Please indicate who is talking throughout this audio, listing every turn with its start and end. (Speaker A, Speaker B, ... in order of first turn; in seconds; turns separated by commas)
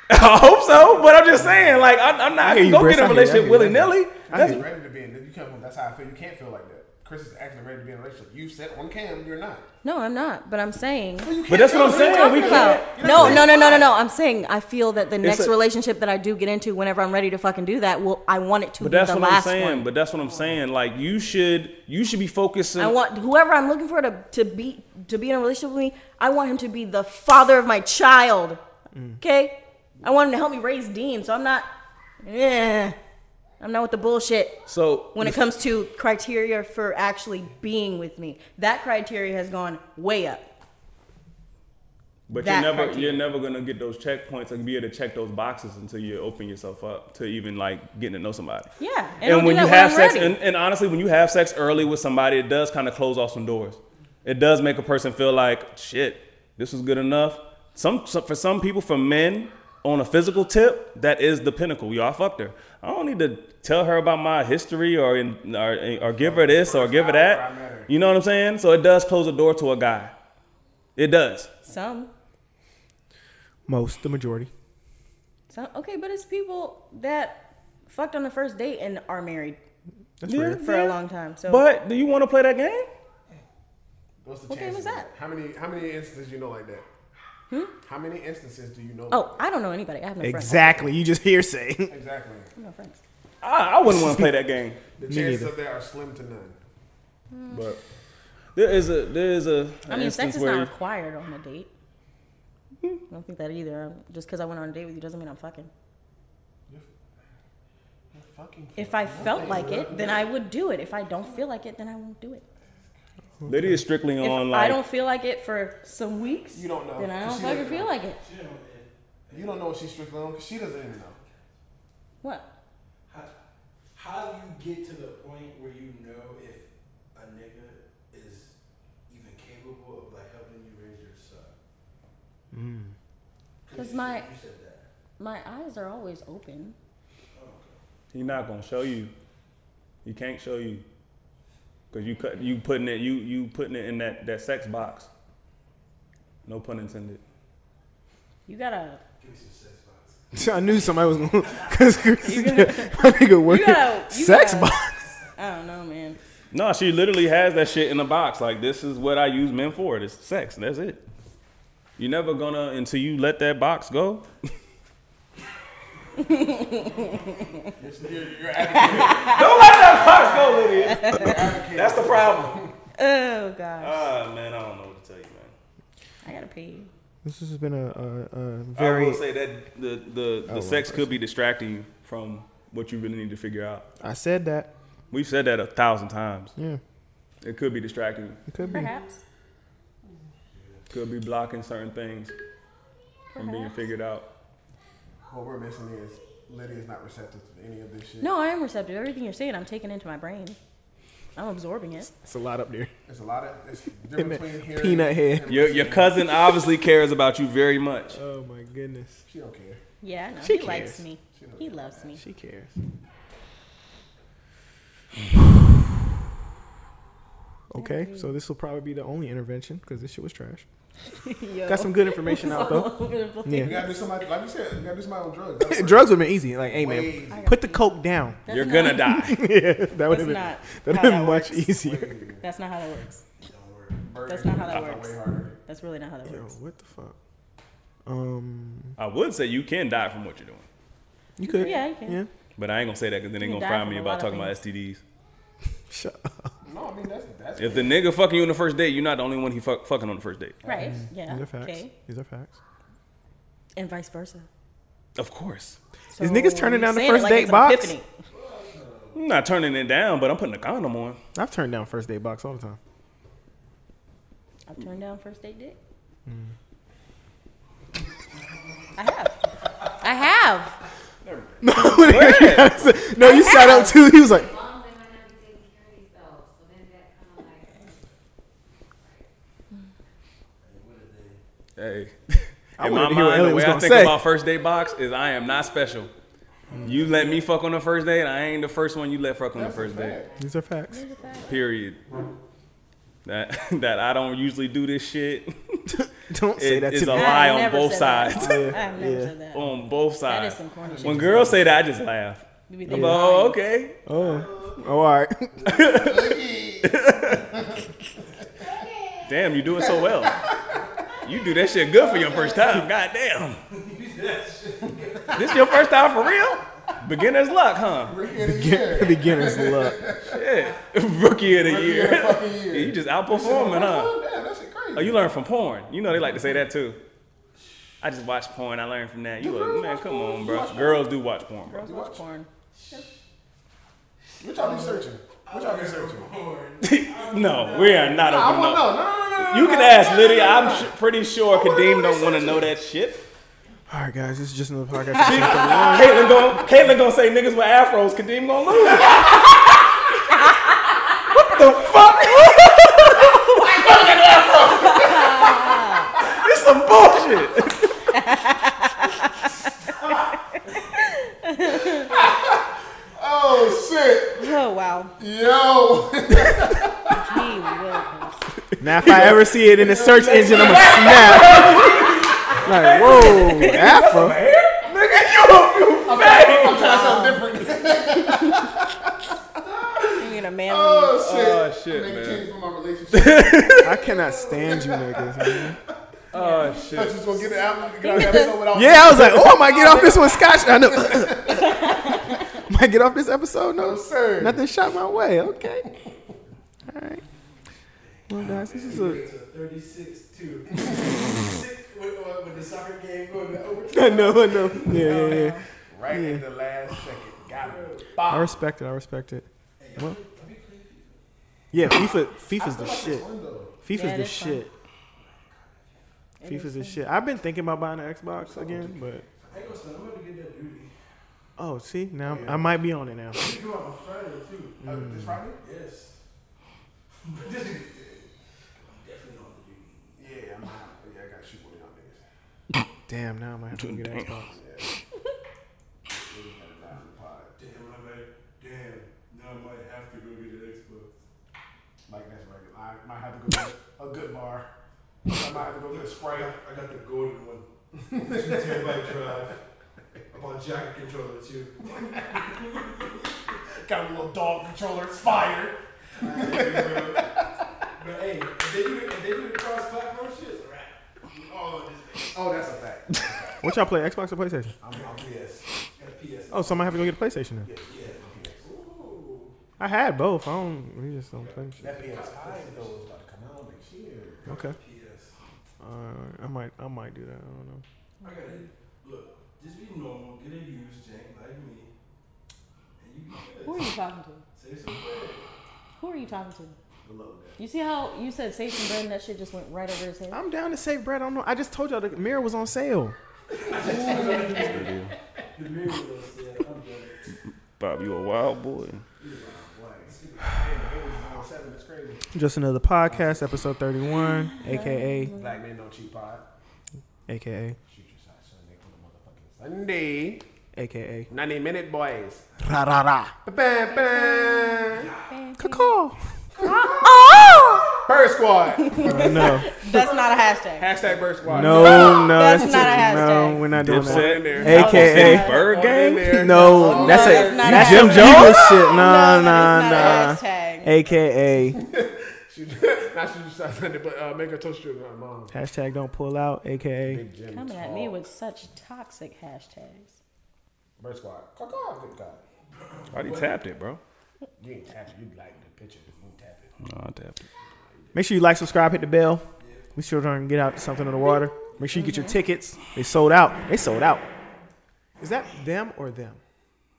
Speaker A: 0.1-4.6, Speaker B: 0.8-2.0, Speaker C: 2.4-4.7, Speaker D: 4.3-9.7, Speaker E: 9.8-19.9, Speaker D: 11.2-13.9, Speaker A: 11.5-13.4, Speaker A: 15.2-15.5, Speaker A: 18.8-22.9, Speaker E: 22.8-28.6, Speaker C: 28.9-29.2, Speaker E: 29.2-31.7, Speaker E: 32.2-33.0, Speaker E: 33.6-40.5, Speaker A: 34.7-35.4, Speaker A: 42.3-48.7, Speaker E: 42.4-43.3, Speaker E: 48.8-50.4, Speaker A: 49.2-70.1, Speaker D: 66.1-67.9, Speaker A: 71.0-71.5, Speaker E: 71.7-72.1, Speaker C: 73.7-74.5, Speaker E: 75.5-79.6, Speaker C: 80.2-80.6, Speaker A: 80.3-82.9, Speaker E: 80.6-81.7, Speaker D: 84.2-86.8, Speaker E: 84.5-85.1, Speaker D: 87.8-89.4, Speaker E: 89.1-90.8, Speaker C: 90.2-92.0, Speaker D: 91.9-92.5, Speaker E: 92.6-93.0, Speaker A: 93.4-94.8, Speaker C: 93.9-94.3, Speaker D: 95.0-96.6, Speaker C: 95.1-95.5, Speaker E: 97.3-97.7, Speaker A: 97.5-97.8, Speaker A: 98.5-100.7, Speaker E: 99.9-101.7, Speaker E: 103.1-105.7, Speaker D: 108.1-109.9, Speaker E: 108.8-112.5, Speaker B: 109.2-110.3, Speaker C: 113.4-113.8, Speaker A: 113.5-114.8, Speaker E: 114.2-118.2, Speaker D: 116.5-117.9, Speaker B: 118.2-119.6, Speaker D: 119.3-121.2, Speaker E: 122.2-122.5, Speaker B: 123.1-123.4, Speaker B: 123.9-128.5, Speaker B: 129.1-131.6, Speaker C: 132.5-132.9, Speaker B: 133.7-134.9, Speaker E: 133.7-134.3, Speaker E: 135.2-136.8, Speaker B: 137.3-137.8, Speaker A: 138.1-139.1, Speaker A: 140.0-140.8, Speaker A: 141.9-145.1, Speaker A: 146.4-147.2, Speaker E: 148.5-149.0, Speaker B: 149.2-152.2, Speaker C: 150.3-155.0, Speaker E: 152.2-154.8, Speaker E: 155.4-156.2, Speaker A: 156.5-161.0, Speaker A: 162.0-164.3, Speaker E: 166.2-167.2, Speaker B: 166.7-167.5, Speaker D: 167.8-172.8, Speaker B: 168.8-169.2, Speaker E: 168.8-169.4, Speaker A: 169.3-172.6, Speaker E: 170.9-171.4, Speaker E: 173.0-174.1, Speaker A: 173.8-175.5, Speaker E: 176.2-176.9, Speaker C: 177.2-179.2, Speaker A: 178.8-183.9, Speaker C: 180.5-181.2, Speaker C: 184.0-184.7, Speaker A: 185.1-186.5, Speaker A: 187.4-188.4, Speaker C: 188.5-188.9, Speaker E: 188.7-189.2, Speaker B: 190.5-190.9, Speaker A: 190.9-192.3, Speaker E: 193.3-193.8, Speaker A: 193.4-194.3, Speaker D: 195.3-198.3, Speaker E: 198.2-200.6, Speaker E: 201.3-202.1, Speaker C: 202.1-202.9, Speaker D: 203.1-206.3, Speaker C: 204.2-205.6, Speaker A: 205.5-208.2, Speaker C: 208.1-209.2, Speaker D: 209.3-209.8, Speaker E: 210.0-212.2, Speaker C: 210.4-211.0, Speaker D: 211.3-212.2, Speaker C: 212.2-212.8, Speaker C: 217.7-220.7, Speaker E: 217.8-218.3, Speaker E: 221.2-224.1, Speaker C: 221.7-223.8, Speaker D: 223.6-227.6, Speaker C: 225.7-228.4, Speaker E: 227.3-227.9, Speaker E: 228.5-229.3, Speaker A: 228.5-229.5, Speaker C: 229.2-232.2, Speaker E: 230.1-231.8, Speaker D: 231.7-232.4, Speaker E: 232.4-233.2, Speaker B: 233.4-234.0, Speaker D: 234.0-235.5, Speaker E: 234.2-236.5, Speaker C: 236.2-237.2, Speaker C: 238.1-239.0, Speaker A: 239.0-240.7, Speaker C: 241.4-242.3, Speaker D: 241.4-241.8, Speaker E: 241.4-242.2, Speaker A: 242.6-245.0, Speaker E: 243.4-244.6, Speaker C: 245.9-246.5, Speaker D: 246.6-248.0, Speaker A: 247.6-250.6, Speaker E: 250.7-251.9, Speaker C: 250.8-252.6, Speaker E: 253.8-254.5, Speaker A: 255.2-255.8, Speaker E: 256.1-258.1, Speaker C: 256.2-257.9, Speaker B: 258.3-259.2, Speaker A: 259.1-261.2, Speaker C: 261.4-262.8, Speaker E: 264.7-265.8, Speaker C: 266.3-266.5, Speaker E: 269.0-270.8, Speaker B: 271.2-271.6, Speaker C: 271.6-274.5, Speaker A: 271.8-272.9, Speaker E: 273.2-274.0, Speaker F: 273.9-278.0, Speaker F: 279.0-279.3, Speaker B: 280.6-281.4, Speaker A: 281.8-286.1, Speaker C: 282.8-284.2, Speaker B: 286.7-287.4, Speaker A: 286.8-290.2, Speaker D: 289.5-290.3, Speaker C: 290.4-291.0, Speaker E: 290.9-291.6, Speaker A: 291.5-292.0, Speaker A: 293.2-295.9, Speaker C: 296.0-297.4, Speaker A: 296.6-298.8, Speaker E: 297.1-301.5, Speaker C: 298.4-299.4, Speaker B: 298.7-298.9, Speaker A: 299.5-304.0, Speaker B: 301.0-301.6, Speaker E: 302.7-303.6, Speaker C: 302.9-303.2, Speaker C: 304.1-305.6, Speaker B: 304.1-304.9, Speaker D: 305.6-307.9, Speaker A: 305.7-307.6, Speaker A: 309.2-310.5, Speaker D: 309.8-310.8, Speaker A: 311.2-313.6, Speaker D: 312.0-312.9, Speaker B: 313.7-315.9, Speaker D: 314.9-315.6, Speaker A: 315.3-318.2, Speaker D: 318.1-320.4, Speaker C: 318.4-320.0, Speaker A: 320.3-324.1, Speaker D: 321.6-325.3, Speaker A: 324.9-327.0, Speaker A: 328.0-331.8, Speaker D: 329.4-331.1, Speaker E: 331.7-332.5, Speaker D: 331.8-332.2, Speaker B: 332.8-333.1, Speaker D: 334.4-336.4, Speaker B: 334.4-338.5, Speaker A: 336.8-343.3, Speaker D: 338.3-340.9, Speaker D: 341.5-342.7, Speaker C: 343.9-346.2, Speaker A: 345.2-350.6, Speaker A: 351.1-358.0, Speaker F: 353.8-354.8, Speaker D: 354.8-355.4, Speaker E: 355.0-356.1, Speaker E: 358.1-359.5, Speaker E: 361.0-362.1, Speaker D: 362.1-362.6, Speaker D: 363.2-364.5, Speaker E: 364.4-365.1, Speaker D: 365.2-367.2, Speaker E: 367.1-368.4, Speaker C: 368.8-372.0, Speaker D: 369.0-371.7, Speaker A: 370.0-377.3, Speaker B: 371.8-373.0, Speaker C: 372.6-374.4, Speaker E: 373.1-373.9, Speaker F: 374.8-375.1, Speaker D: 376.0-378.9, Speaker E: 377.0-377.4, Speaker D: 379.6-385.6, Speaker E: 380.2-381.2, Speaker A: 381.2-382.5, Speaker A: 383.1-384.0, Speaker C: 383.8-385.8, Speaker A: 386.3-387.4, Speaker E: 386.4-386.9, Speaker B: 386.6-388.2, Speaker D: 386.9-391.9, Speaker E: 388.0-388.6, Speaker C: 388.7-392.0, Speaker C: 392.6-395.9, Speaker D: 393.8-394.7, Speaker C: 396.9-397.2, Speaker B: 398.0-405.6, Speaker C: 398.3-399.2, Speaker D: 398.6-399.3, Speaker C: 403.9-406.4, Speaker E: 405.0-405.6, Speaker D: 405.9-408.6, Speaker B: 407.5-408.1, Speaker C: 408.3-410.2, Speaker B: 409.8-411.2, Speaker C: 411.7-413.3, Speaker D: 412.5-413.7, Speaker C: 413.8-414.7, Speaker E: 413.9-414.7, Speaker B: 415.2-416.1, Speaker E: 416.4-417.0, Speaker C: 416.5-419.2, Speaker D: 418.4-419.0, Speaker B: 419.4-420.9, Speaker C: 421.6-423.4, Speaker D: 422.3-422.6, Speaker B: 422.4-422.6, Speaker B: 423.3-424.8, Speaker C: 424.8-425.4, Speaker D: 424.8-425.6, Speaker B: 425.6-426.2, Speaker B: 427.2-428.3, Speaker B: 428.9-430.2, Speaker D: 430.2-432.3, Speaker C: 433.1-434.6, Speaker A: 433.8-434.3, Speaker D: 434.5-434.9, Speaker D: 436.1-437.5, Speaker B: 437.6-441.1, Speaker D: 442.1-444.7, Speaker D: 445.3-446.5, Speaker B: 445.3-447.7, Speaker D: 448.0-449.1, Speaker B: 448.2-449.6, Speaker B: 450.3-453.4, Speaker D: 453.8-457.4, Speaker B: 456.2-457.3, Speaker B: 457.9-462.7, Speaker D: 462.3-463.6, Speaker C: 463.6-464.8, Speaker D: 464.8-465.7, Speaker B: 464.9-465.3, Speaker B: 465.9-467.1, Speaker C: 466.5-467.7, Speaker D: 467.6-468.7, Speaker B: 467.9-469.6, Speaker C: 469.8-472.0, Speaker B: 471.4-473.0, Speaker D: 471.8-474.5, Speaker B: 474.4-475.4, Speaker C: 474.5-474.8, Speaker C: 475.8-477.8, Speaker B: 478.2-481.9, Speaker E: 478.2-478.6, Speaker B: 483.0-483.9, Speaker E: 483.6-484.4, Speaker B: 484.6-485.5, Speaker E: 486.0-486.8, Speaker D: 487.0-487.6, Speaker E: 487.6-490.4, Speaker C: 490.3-493.2, Speaker B: 493.5-495.0, Speaker E: 493.9-494.7, Speaker D: 494.0-494.6, Speaker A: 494.5-495.1, Speaker B: 495.6-497.2, Speaker A: 497.8-499.0, Speaker B: 499.2-500.6, Speaker D: 499.3-502.3, Speaker C: 502.3-505.3, Speaker D: 503.0-503.6, Speaker E: 504.4-505.6, Speaker D: 505.4-506.4, Speaker C: 507.3-507.8, Speaker D: 507.9-510.4, Speaker C: 510.8-511.3, Speaker D: 511.3-512.5, Speaker C: 512.6-513.4, Speaker D: 513.5-515.1, Speaker E: 514.1-515.9, Speaker B: 514.9-515.4, Speaker C: 515.6-516.2, Speaker D: 516.6-517.1, Speaker E: 516.6-518.0, Speaker D: 518.0-529.1, Speaker E: 518.8-520.9, Speaker C: 519.0-520.1, Speaker B: 521.0-521.2, Speaker C: 521.5-525.5, Speaker E: 521.6-523.7, Speaker A: 523.7-528.5, Speaker E: 524.5-525.7, Speaker C: 526.2-531.8, Speaker E: 526.6-530.9, Speaker D: 529.8-530.4, Speaker D: 531.6-535.5, Speaker C: 535.5-537.2, Speaker D: 537.0-538.2, Speaker E: 537.5-540.2, Speaker D: 541.0-542.4, Speaker B: 542.7-543.6, Speaker A: 543.1-544.0, Speaker D: 544.6-546.7, Speaker A: 546.8-547.5, Speaker D: 547.7-548.1, Speaker C: 548.1-549.4, Speaker B: 549.6-549.9, Speaker C: 550.0-554.3, Speaker D: 551.2-551.5, Speaker B: 551.7-552.2, Speaker E: 552.0-552.4, Speaker C: 555.2-556.4